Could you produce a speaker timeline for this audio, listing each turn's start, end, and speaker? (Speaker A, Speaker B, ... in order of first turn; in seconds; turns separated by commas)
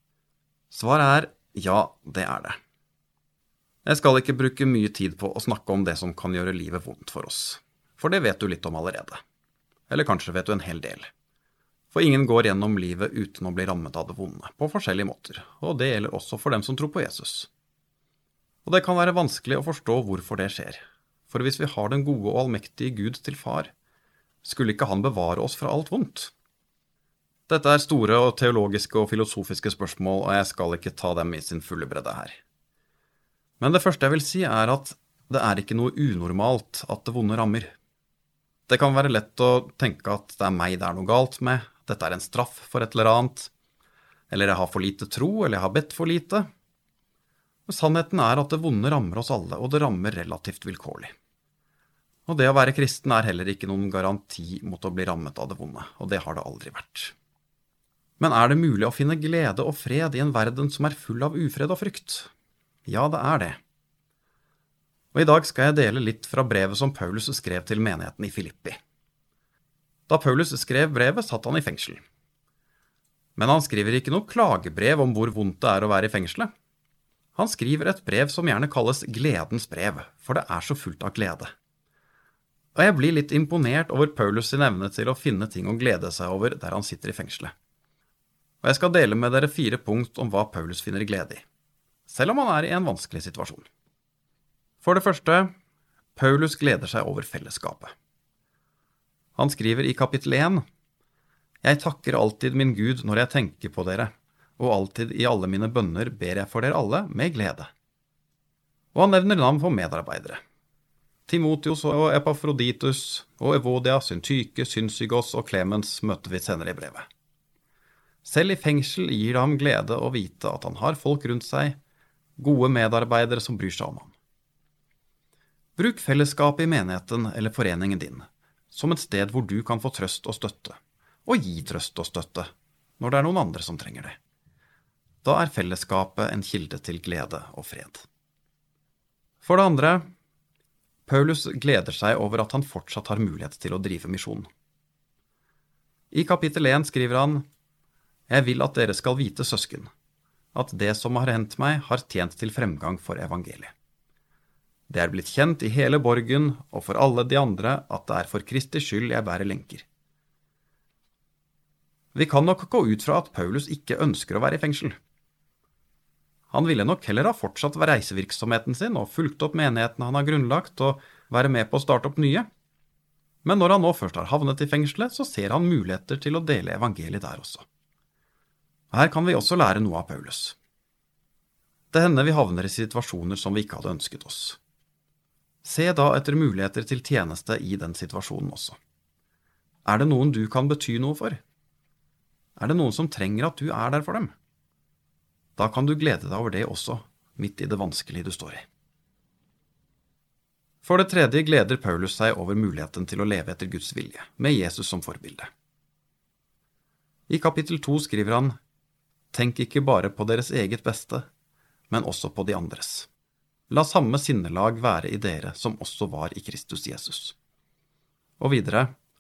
Speaker A: 0.7-2.6, Speaker A: 3.9-9.2, Speaker A: 9.9-11.1, Speaker A: 11.9-17.5, Speaker A: 18.6-23.7, Speaker A: 24.4-26.3, Speaker A: 27.5-32.4, Speaker A: 33.6-37.7, Speaker A: 38.7-43.5, Speaker A: 44.3-46.5, Speaker A: 47.7-51.1, Speaker A: 52.3-57.1, Speaker A: 58.2-62.3, Speaker A: 62.9-63.6, Speaker A: 65.1-68.8, Speaker A: 70.1-72.0, Speaker A: 73.4-76.5, Speaker A: 77.3-81.5, Speaker A: 82.8-87.5, Speaker A: 88.6-91.4, Speaker A: 92.1-93.7, Speaker A: 94.8-95.5, Speaker A: 96.2-97.9, Speaker A: 99.4-100.6, Speaker A: 101.6-107.7, Speaker A: 108.9-110.4, Speaker A: 111.3-117.1, Speaker A: 118.2-121.8, Speaker A: 122.4-124.2, Speaker A: 125.8-134.2, Speaker A: 135.2-138.1, Speaker A: 139.4-140.0, Speaker A: 141.1-144.5, Speaker A: 146.1-147.4, Speaker A: 148.3-149.9, Speaker A: 150.5-153.7, Speaker A: 154.9-159.9, Speaker A: 162.1-165.0, Speaker A: 166.5-172.5, Speaker A: 173.4-177.7, Speaker A: 178.9-180.6, Speaker A: 181.9-184.6, Speaker A: 185.6-188.8, Speaker A: 189.8-191.4, Speaker A: 192.6-194.3, Speaker A: 195.6-198.7, Speaker A: 200.8-205.5, Speaker A: 207.3-208.6, Speaker A: 209.3-211.3, Speaker A: 211.9-213.1, Speaker A: 213.7-217.4, Speaker A: 218.4-218.9